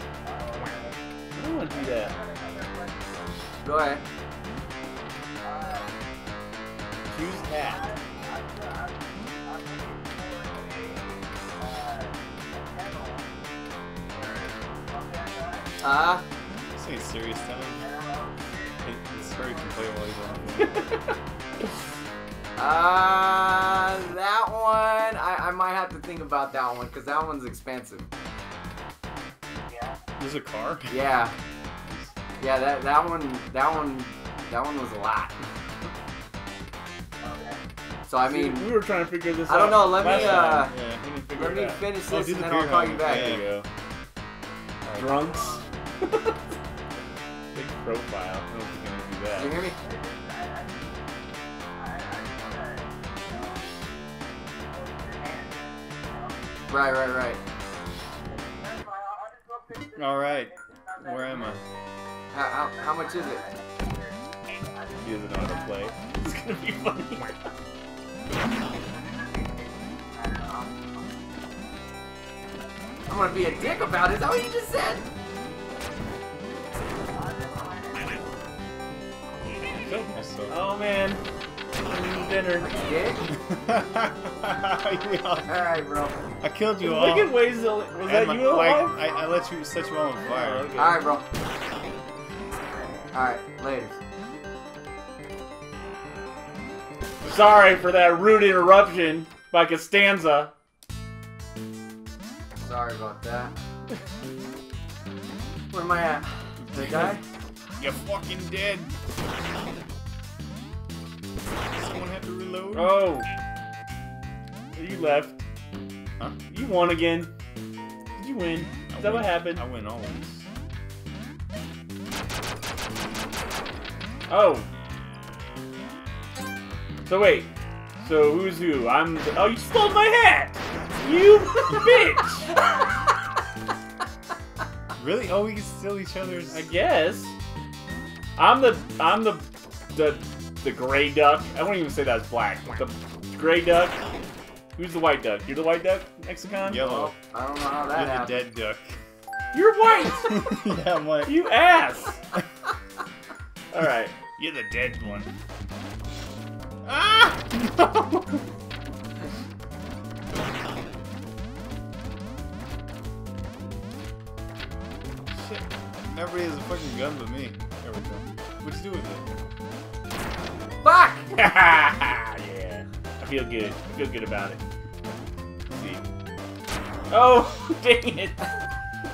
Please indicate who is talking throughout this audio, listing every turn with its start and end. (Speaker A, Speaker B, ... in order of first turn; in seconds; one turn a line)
Speaker A: 1.4-2.2
Speaker B: 3.6-4.0
Speaker A: 7.1-7.9
Speaker B: 15.8-16.2
Speaker C: 16.8-17.9
Speaker C: 18.8-20.9
Speaker A: 20.6-21.2
Speaker B: 22.6-28.1
Speaker C: 30.2-31.0
Speaker B: 30.9-31.3
Speaker B: 32.4-35.4
Speaker B: 38.1-38.7
Speaker A: 38.2-41.9
Speaker B: 39.5-40.7
Speaker C: 39.9-41.0
Speaker B: 41.3-43.4
Speaker C: 42.1-43.5
Speaker A: 43.0-43.7
Speaker A: 45.0-46.4
Speaker A: 47.5-49.6
Speaker B: 49.4-49.8
Speaker B: 56.7-57.4
Speaker C: 59.9-61.6
Speaker B: 62.3-63.5
Speaker A: 65.0-67.3
Speaker B: 73.1-75.1
Speaker A: 79.9-81.2
Speaker C: 80.1-80.5
Speaker A: 81.9-82.8
Speaker B: 82.6-83.3
Speaker C: 83.3-85.6
Speaker B: 85.5-86.2
Speaker C: 86.4-87.4
Speaker A: 86.8-89.0
Speaker C: 88.0-90.7
Speaker A: 90.3-91.0
Speaker B: 90.8-91.2
Speaker B: 93.1-94.0
Speaker C: 97.2-97.5
Speaker A: 97.2-100.5
Speaker B: 102.6-103.5
Speaker B: 105.7-107.2
Speaker C: 106.7-107.2
Speaker C: 107.8-108.9
Speaker C: 111.8-113.0
Speaker A: 112.7-113.3
Speaker A: 114.7-115.4
Speaker A: 116.5-117.3
Speaker A: 118.2-119.6
Speaker C: 118.9-120.5
Speaker A: 124.3-124.7
Speaker A: 127.0-132.5
Speaker C: 135.0-136.7
Speaker A: 136.5-137.3
Speaker A: 138.4-144.0
Speaker A: 144.8-146.8
Speaker C: 146.7-147.2
Speaker B: 146.8-148.4
Speaker C: 147.9-149.0
Speaker A: 149.5-150.3
Speaker C: 150.3-151.4
Speaker A: 151.2-152.2
Speaker A: 153.7-154.2
Speaker C: 154.4-155.3
Speaker C: 156.8-158.4
Speaker C: 165.3-169.3
Speaker B: 170.8-171.3
Speaker A: 171.3-174.6
Speaker A: 175.7-176.0
Speaker A: 177.1-178.5